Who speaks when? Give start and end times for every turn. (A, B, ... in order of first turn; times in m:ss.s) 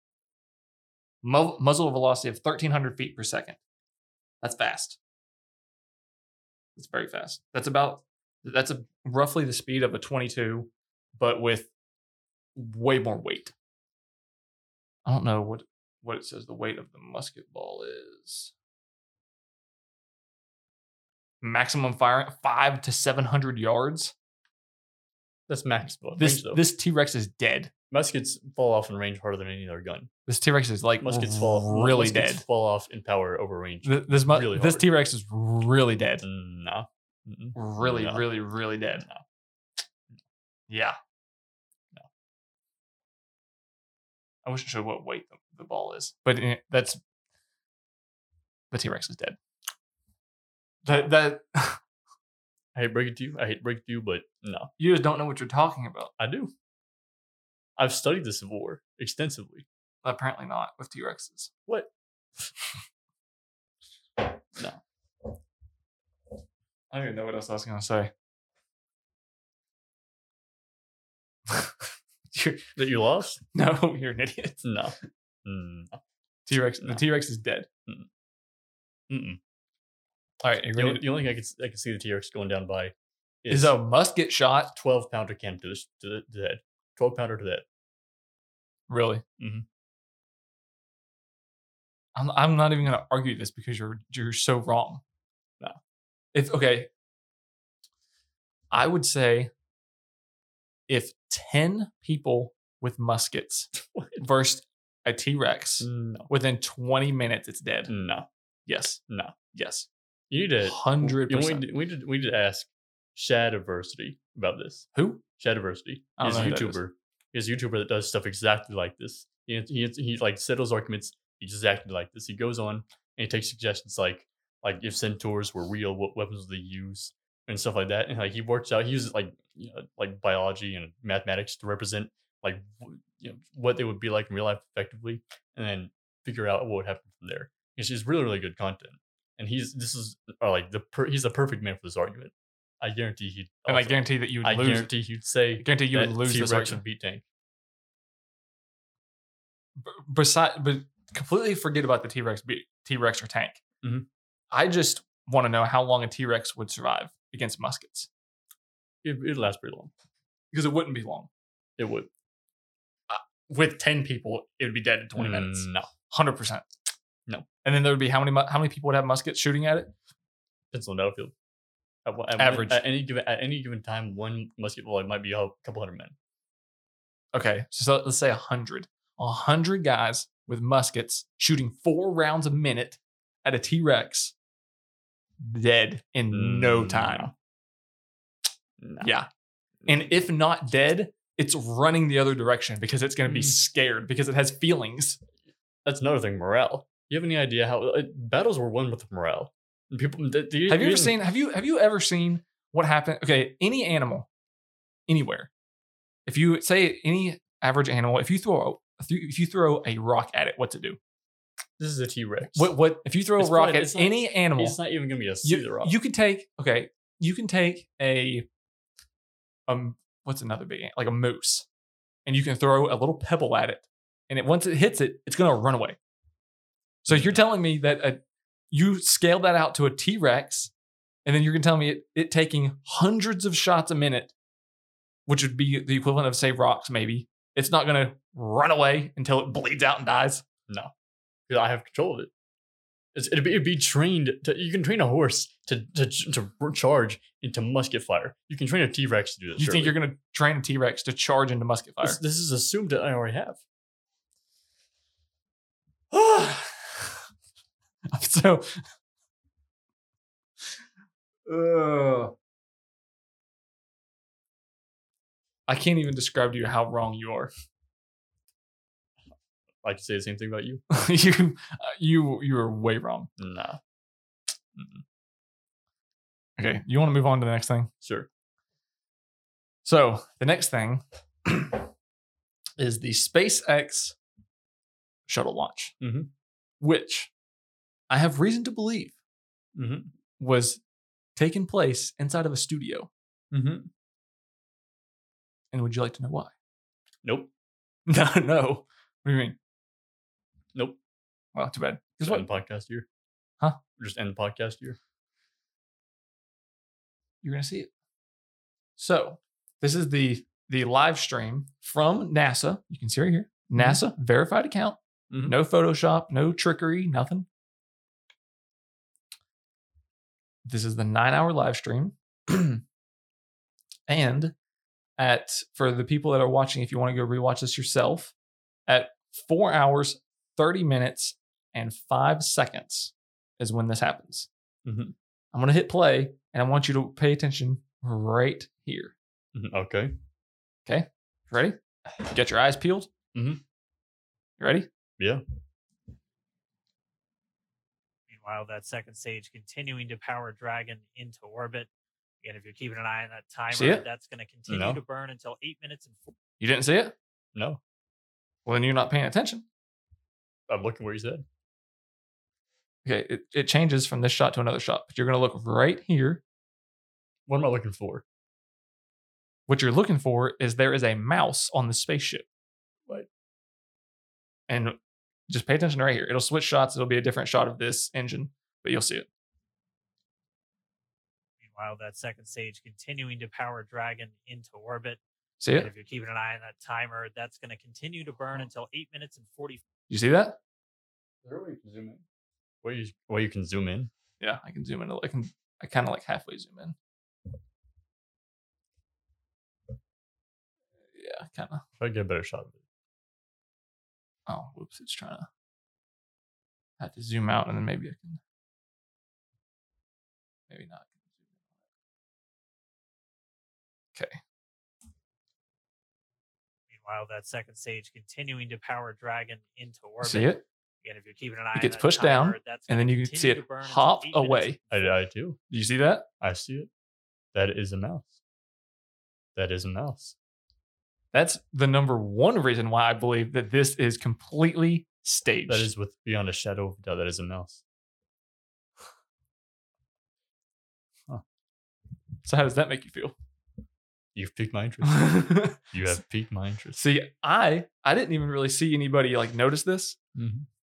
0:01.2-0:03.6 A
0:04.4-0:05.0 A
0:06.8-0:11.7 A
0:12.6-0:13.5 A
0:15.0-0:18.5 A
0:21.4-0:24.1 A
0:25.5-0:26.6 B
0:26.2-0:27.7 A
0:27.9-0:30.1 B
0:30.2-0:32.4 A
0:31.0-0:34.9 B
0:33.8-0:36.2 A
0:36.2-0:38.3 B
0:37.5-0:39.0 A
0:39.0-0:39.2 B
0:40.7-0:41.0 A
0:44.4-0:47.0 A
0:48.7-0:49.4 A
0:50.8-0:51.8 A
0:52.7-0:54.7 B
0:54.8-0:56.1 A
0:56.2-0:56.5 B
0:57.8-0:59.6 B
1:00.0-1:01.5 A
1:04.5-1:04.8 B
1:06.9-1:08.1 A
1:12.3-1:12.7 A
1:12.7-1:13.4 B
1:13.5-1:14.7 A
1:14.6-1:16.0 B
1:16.5-1:17.7 A
1:16.8-1:17.0 B
1:19.1-1:19.4 B
1:20.4-1:21.1 A
1:20.7-1:23.8 B
1:23.5-1:24.7 A
1:24.7-1:27.6 B
1:28.9-1:29.2 A
1:29.4-1:29.6 B
1:32.1-1:35.0 A
1:36.3-1:36.9 A
1:38.7-1:39.5 A
1:40.9-1:47.9 A
1:43.9-1:44.2 B
1:45.8-1:46.3 B
1:47.9-1:48.3 B
1:48.7-1:49.0 A
1:49.1-1:49.3 B
1:49.5-1:49.9 A
1:50.3-2:27.2 B
1:50.6-1:51.6 A
1:54.9-1:55.2 A
1:56.2-1:56.8 A
2:23.6-2:24.9 A
2:25.6-2:26.8 A
2:29.8-2:33.6 A
2:33.8-2:34.1 B
2:34.5-2:38.1 A
2:39.0-2:39.9 B
2:40.5-2:41.3 A
2:41.8-2:42.1 B
2:43.1-2:46.6 A
2:45.2-2:45.9 B
2:47.6-2:49.9 A
2:50.7-2:51.3 B
2:52.0-2:56.1 B
2:52.4-2:52.8 A
2:57.3-3:04.3 A
3:05.4-3:07.3 A
3:06.3-3:07.3 B
3:08.8-3:09.1 B
3:09.0-3:09.3 A
3:09.8-3:10.1 B
3:09.8-3:15.2 A
3:13.2-3:13.6 B
3:15.8-3:21.2 B
3:20.7-3:24.3 A
3:25.1-3:25.5 A
3:26.2-3:31.0 A
3:31.8-3:32.7 B
3:32.5-3:34.8 A
3:33.4-3:36.0 B
3:35.4-3:38.4 A
3:39.7-3:41.6 A
3:42.2-3:46.0 A
3:47.0-3:48.2 A
3:47.1-3:47.4 B
3:48.7-3:50.7 A
3:51.2-3:54.3 A
3:55.3-4:00.4 A
4:01.5-4:02.3 B
4:03.1-4:10.0 B
4:09.6-4:12.2 A
4:12.0-4:13.6 B
4:16.1-4:17.1 A
4:18.1-4:18.8 A
4:21.4-4:22.3 A
4:25.7-4:27.5 A
4:29.8-4:30.8 B
4:30.9-4:33.3 A
4:33.4-4:33.8 B
4:34.7-4:35.0 B
4:36.6-4:37.9 A
4:38.0-4:38.3 B
4:39.8-4:41.8 A
4:42.8-4:44.2 A
4:45.3-4:46.0 A
4:46.0-4:46.3 B
4:46.8-4:47.3 A
4:48.1-4:49.1 A
4:49.7-4:50.1 B
4:50.4-4:50.8 A
4:51.4-4:53.1 A
4:53.5-4:53.9 B
4:55.7-4:56.5 A
4:57.2-4:57.5 B
4:58.1-4:59.6 A
5:01.5-5:02.5 A
5:02.2-5:03.1 B
5:04.0-5:05.0 B
5:07.4-5:07.9 A
5:09.0-5:17.5 A
5:13.8-5:14.0 B
5:20.6-5:22.8 A
5:24.1-5:24.5 A
5:25.2-5:28.3 A
5:28.9-5:34.5 A
5:34.8-5:35.1 B
5:35.5-5:39.1 A
5:39.5-5:40.2 B
5:40.8-5:43.1 A
5:43.3-5:43.6 B
5:44.6-5:44.9 A
5:48.3-5:51.9 C
5:52.4-5:56.3 C
5:53.7-5:54.0 A
5:54.7-5:55.0 B
5:56.6-5:57.1 A
5:57.5-5:57.8 B
5:58.6-5:59.6 A
6:00.7-6:01.4 B
6:03.0-6:06.4 A
6:07.5-6:08.2 B
6:09.7-6:12.4 A
6:14.7-6:15.0 A
6:15.5-6:19.3 A
6:21.6-6:25.2 C
6:25.6-6:25.9 A
6:25.7-6:29.8 C
6:30.1-6:30.6 A
6:31.4-6:32.2 B
6:32.8-6:34.1 B
6:34.4-6:37.0 A
6:41.1-6:41.8 A
6:42.0-6:42.8 B
6:44.5-6:45.5 A
6:47.0-6:48.4 A
6:50.7-6:51.1 A
6:56.9-7:05.1 C
7:00.2-7:00.6 A
7:01.7-7:04.8 A
7:04.9-7:05.6 B
7:05.7-7:06.3 A
7:06.4-7:06.9 B
7:07.5-7:08.4 B
7:09.6-7:10.3 B
7:11.3-7:15.9 A
7:15.7-7:17.8 B
7:22.4-7:23.3 A
7:24.3-7:27.0 B
7:25.0-7:25.9 A
7:27.0-7:30.2 A
7:30.3-7:30.7 B